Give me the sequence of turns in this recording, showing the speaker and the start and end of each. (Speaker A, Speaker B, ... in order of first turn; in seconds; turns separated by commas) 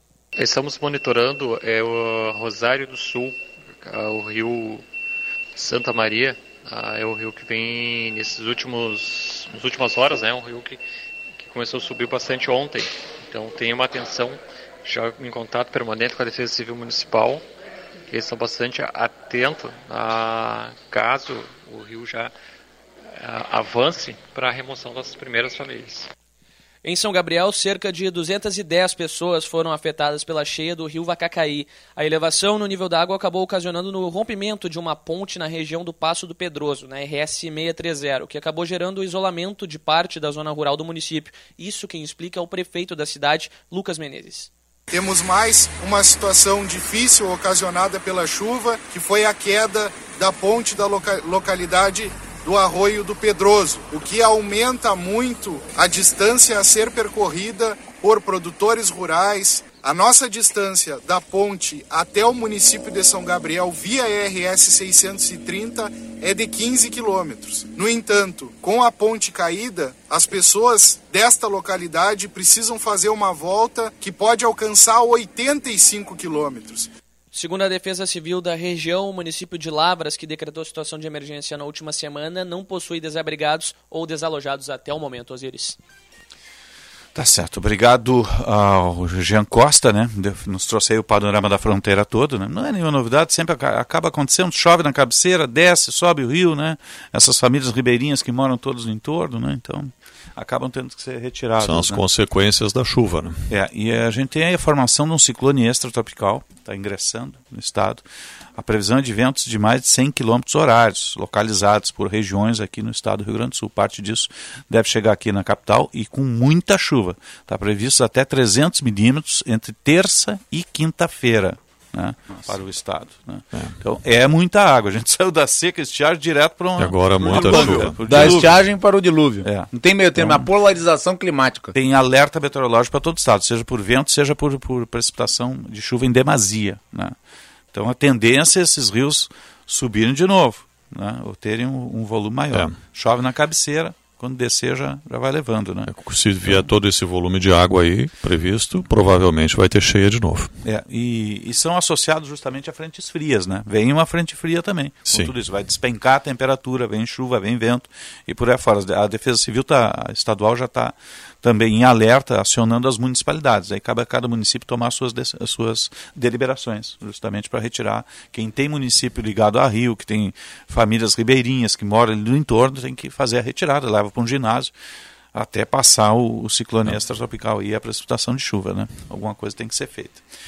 Speaker A: 0.3-4.9, Speaker A: 5.6-17.5, Speaker A: 18.1-22.3, Speaker A: 23.1-26.1, Speaker B: 26.8-44.5, Speaker C: 44.9-76.9, Speaker B: 77.3-85.8, Speaker D: 87.2-102.0, Speaker E: 101.6-103.4, Speaker D: 103.5-108.0, Speaker D: 108.6-128.6, Speaker E: 126.8-128.4, Speaker F: 127.3-131.8, Speaker D: 129.4-130.5, Speaker D: 131.7-137.2, Speaker D: 137.7-146.7, Speaker E: 145.9-150.5, Speaker D: 150.6-174.7, Speaker E: 155.1-155.3, Speaker D: 175.3-180.2